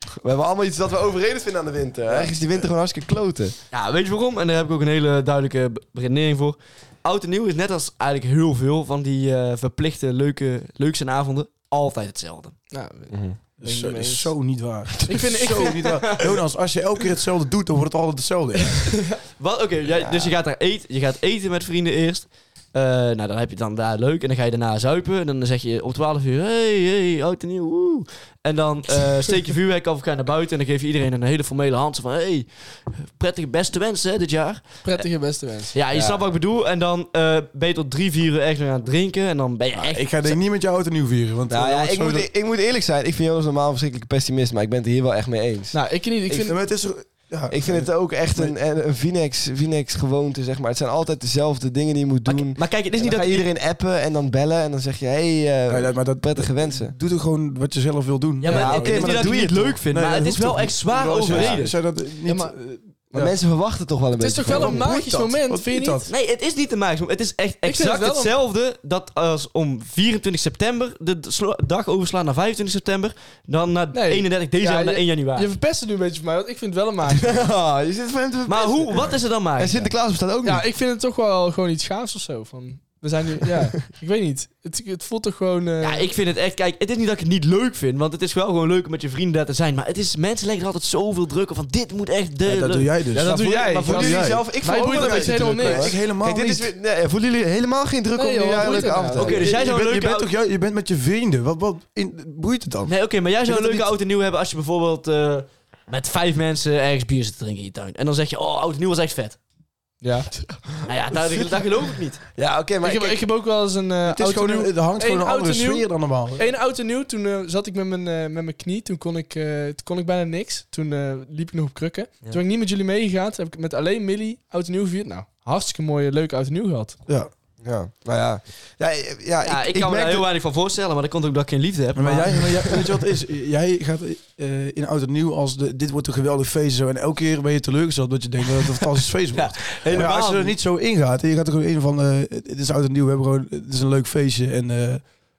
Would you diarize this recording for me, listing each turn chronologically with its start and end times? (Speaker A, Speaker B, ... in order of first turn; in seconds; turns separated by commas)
Speaker A: 0.2-3.6, Speaker B: 3.7-12.6, Speaker C: 12.7-16.0, Speaker A: 13.1-13.4, Speaker D: 13.6-19.1, Speaker B: 19.1-35.1, Speaker A: 19.9-20.4, Speaker C: 34.8-35.8, Speaker B: 35.7-40.4, Speaker A: 35.9-36.2, Speaker D: 39.8-42.3, Speaker A: 41.5-46.5, Speaker C: 45.7-46.6, Speaker D: 46.4-48.5, Speaker A: 47.5-57.0, Speaker B: 52.3-53.5, Speaker D: 55.7-63.4, Speaker B: 58.4-61.8, Speaker C: 58.4-59.0, Speaker A: 58.5-59.8, Speaker A: 61.3-61.6, Speaker C: 62.2-62.6, Speaker A: 63.1-65.2, Speaker C: 64.2-66.1, Speaker D: 64.5-66.1, Speaker B: 66.1-75.5, Speaker C: 67.6-68.3, Speaker C: 73.9-77.5, Speaker A: 77.1-80.6, Speaker B: 78.5-79.9, Speaker C: 80.4-86.1, Speaker B: 85.8-93.9, Speaker D: 92.5-96.7, Speaker C: 93.1-96.0, Speaker A: 93.2-99.5, Speaker C: 98.2-99.4, Speaker B: 99.2-100.3, Speaker D: 99.3-102.9, Speaker B: 102.9-109.4, Speaker C: 110.0-110.3, Speaker B: 110.9-112.2, Speaker A: 112.3-113.2, Speaker C: 112.8-127.0, Speaker D: 114.1-116.5, Speaker A: 127.6-130.3, Speaker B: 129.4-132.8, Speaker D: 131.9-145.1, Speaker B: 139.3-140.6, Speaker A: 139.9-140.1